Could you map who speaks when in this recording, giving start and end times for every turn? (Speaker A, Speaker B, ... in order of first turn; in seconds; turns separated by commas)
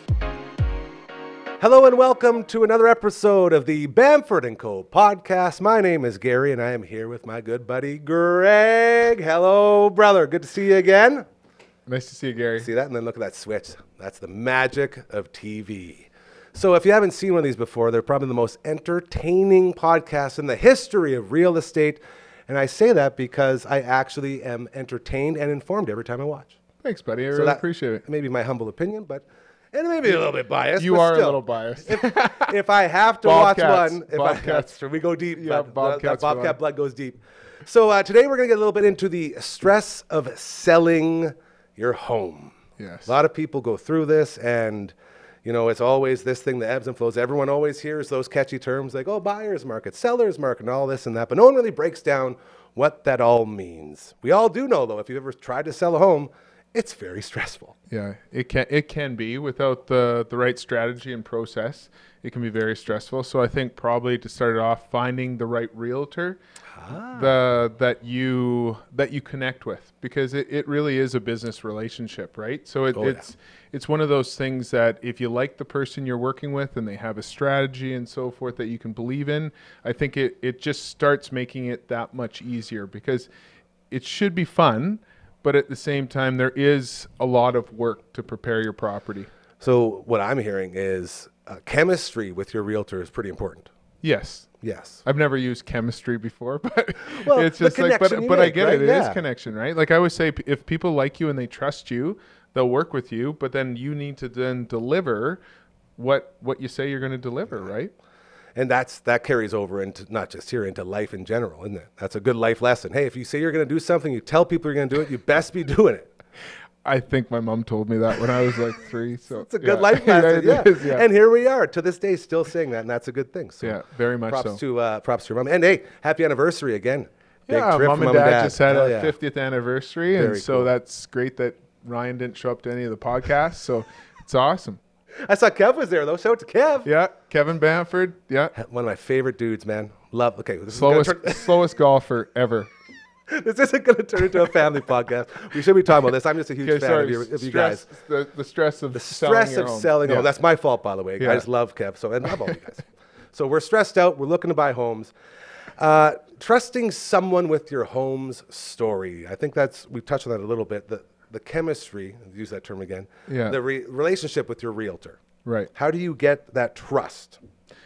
Speaker A: 1.6-11.2, Speaker B: 11.9-12.7, Speaker A: 12.6-26.6, Speaker B: 26.8-28.0, Speaker A: 27.3-57.7, Speaker B: 30.1-32.5, Speaker B: 33.2-34.7, Speaker B: 35.3-36.6, Speaker B: 42.8-43.2, Speaker B: 57.9-66.4, Speaker A: 66.7-67.4, Speaker B: 67.1-83.3, Speaker A: 73.0-73.2, Speaker B: 83.9-89.3, Speaker A: 89.6-93.7, Speaker B: 94.0-94.5, Speaker A: 94.6-95.0, Speaker B: 95.0-105.4, Speaker A: 97.2-99.2, Speaker B: 106.0-107.9, Speaker A: 108.6-116.1, Speaker B: 116.8-121.0, Speaker A: 119.3-129.2, Speaker B: 123.6-124.6, Speaker B: 127.5-134.8, Speaker A: 130.1-130.7, Speaker A: 135.2-136.9, Speaker B: 136.8-138.5, Speaker A: 138.6-141.6, Speaker B: 140.7-142.7, Speaker A: 143.3-147.8, Speaker B: 146.6-150.3, Speaker A: 148.9-155.1, Speaker B: 151.2-151.4, Speaker A: 155.8-165.2, Speaker B: 163.3-163.6, Speaker B: 165.4-165.7, Speaker A: 165.7-167.4